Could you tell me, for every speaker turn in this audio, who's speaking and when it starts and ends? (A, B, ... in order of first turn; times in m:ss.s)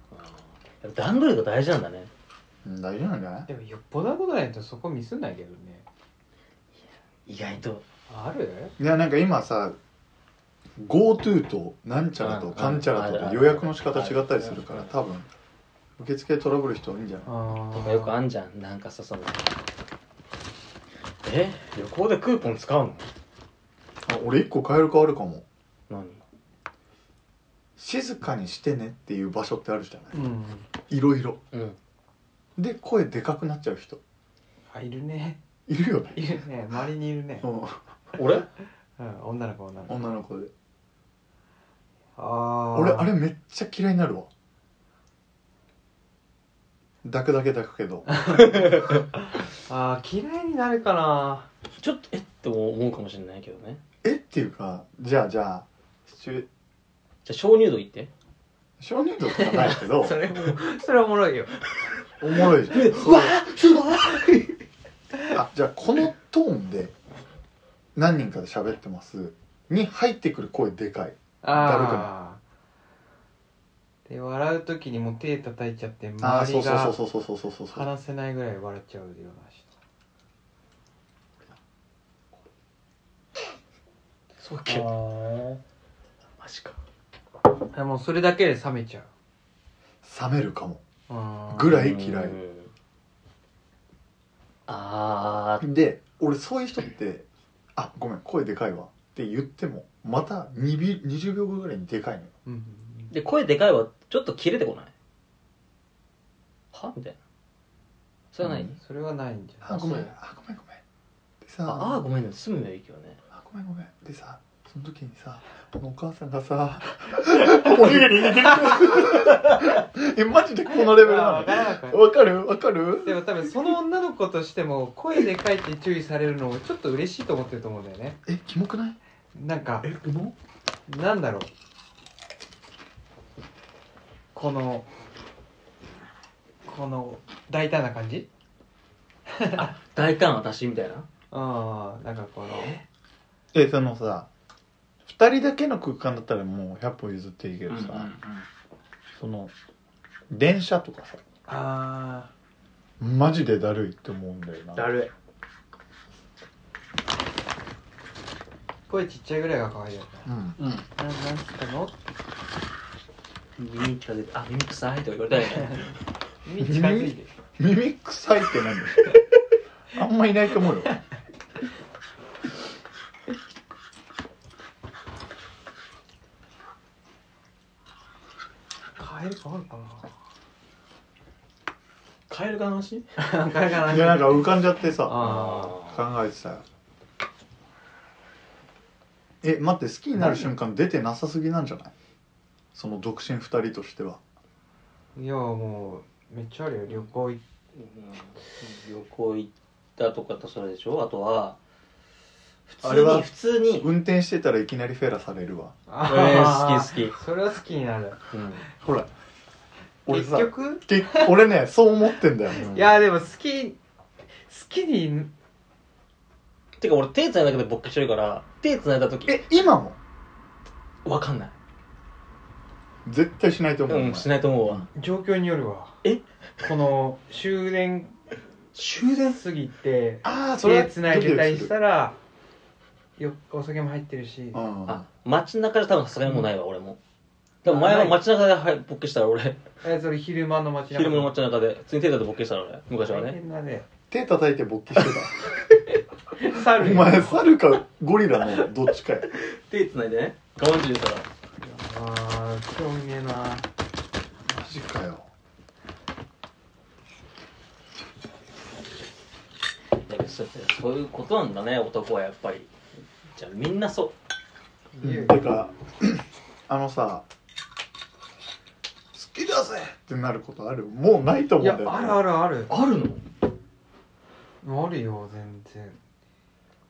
0:00.1-0:02.1 A
0:02.6-0:03.5 B
0:03.5-0:05.9 C
0:07.3-0:07.8 A
0:08.1-0:08.8 C
0:08.8-0:09.8 B
0:10.8-0:15.3 B
0:12.2-0:14.9 A
0:16.0-0:17.3 B
0:17.3-0:18.2 C
0:17.7-0:19.5 A
0:21.2-0:23.1 A
0:24.1-0:25.4 B
0:25.9-0:26.2 A
0:27.8-0:30.1 B
0:30.1-0:30.7 C
0:30.9-0:31.4 B
0:31.5-0:31.8 A
0:32.6-0:34.0 B
0:34.7-0:35.4 C
0:35.7-0:36.2 B
0:36.2-0:37.5 C
0:37.4-0:38.2 B
0:38.2-0:38.5 A
0:39.0-0:40.1 C
0:39.9-0:40.5 B
0:42.2-0:43.1 C
0:42.7-0:44.3 B
0:47.0-0:48.1 B
0:48.1-0:51.5 C
0:48.6-0:49.0 A
0:51.8-0:53.8 A
0:54.0-0:56.5 B
0:57.3-0:58.1 A
0:58.8-1:00.2 B
0:59.3-1:01.6 C
1:02.2-1:03.4 B
1:02.4-1:04.6 A
1:05.3-1:06.9 B
1:08.0-1:12.1 B
1:11.4-1:12.4 C
1:14.1-1:17.0 C
1:16.2-1:17.9 B
1:17.7-1:19.7 C
1:24.4-1:24.9 A
1:24.7-1:25.6 C
1:26.4-1:26.8 A
1:27.7-1:29.1 C
1:30.0-1:30.8 B
1:31.1-1:31.8 C
1:31.5-1:32.4 B
1:31.6-1:32.7 A
1:34.7-1:35.6 A
1:35.6-1:42.3 B
1:42.4-1:43.1 C
1:43.1-1:44.9 A
1:46.7-1:47.2 A
1:48.3-1:48.7 A
1:48.4-1:48.8 B
1:48.8-1:50.1 C
1:49.6-1:50.8 B
1:49.7-1:50.0 A
1:51.4-1:52.0 B
1:51.7-1:53.2 A
1:53.3-2:03.2 B
2:00.7-2:02.0 C
2:03.0-2:08.2 C
2:08.3-2:09.0 B
2:09.3-2:09.9 C
2:09.8-2:10.3 A
2:10.9-2:11.5 C
2:14.3-2:14.9 C
2:16.6-2:18.3 C
2:19.3-2:19.7 C
2:19.6-2:21.1 A
2:21.3-2:22.8 C
2:22.5-2:22.8 A
2:23.5-2:24.3 B
2:25.1-2:28.1 B
2:27.7-2:28.5 A
2:29.2-2:29.5 B
2:30.3-2:31.2 B
2:31.5-2:32.3 C
2:33.0-2:34.9 B
2:34.8-2:35.1 A
2:38.9-2:40.4 C
2:40.3-2:40.6 B
2:40.6-2:40.8 A
2:41.0-2:42.0 C
2:43.6-2:46.0 A
2:45.6-2:45.8 C
2:46.4-2:47.3 C
2:46.6-2:49.2 B
2:49.9-2:51.0 B
2:59.0-3:00.1 C
3:02.3-3:03.0 A
3:03.2-3:05.8 C
3:03.8-3:06.6 B
3:05.2-3:06.0 A
3:09.4-3:11.9 B
3:12.8-3:14.2 B
3:15.2-3:17.4 C
3:17.7-3:21.6 A
3:22.7-3:23.9 A
3:22.8-3:25.8 B
3:25.9-3:28.2 C
3:26.0-3:27.2 A
3:28.3-3:28.7 A
3:28.8-3:29.1 B
3:30.1-3:32.7 B
3:30.1-3:31.4 C
3:32.5-3:33.8 C
3:32.6-3:32.9 A
3:34.4-3:35.3 C
3:36.8-3:39.4 A
3:39.3-3:40.0 B
3:41.0-3:41.6 A
3:43.0-3:44.9 B
3:43.9-3:44.9 A
3:44.9-3:46.0 C
3:46.6-3:48.1 C
3:48.8-3:49.4 A
3:48.8-3:52.2 C
3:50.2-3:51.7 B
3:53.2-3:54.6 C
3:54.5-3:55.0 B
3:54.9-3:57.0 A
3:57.6-3:59.6 A
3:57.6-3:58.2 C
3:59.8-4:01.4 C
4:00.9-4:03.4 A
4:03.1-4:03.9 C
4:04.1-4:05.3 B
4:06.4-4:07.5 C
4:06.6-4:09.3 B
4:09.3-4:11.3 A
4:11.6-4:13.7 C
4:14.5-4:15.3 B
4:20.1-4:22.7 A
4:23.3-4:24.1 A
4:25.0-4:25.4 C
4:25.0-4:27.2 B
4:29.1-4:32.2 B
4:31.6-4:32.7 C
4:32.7-4:33.2 A
4:34.6-4:36.0 C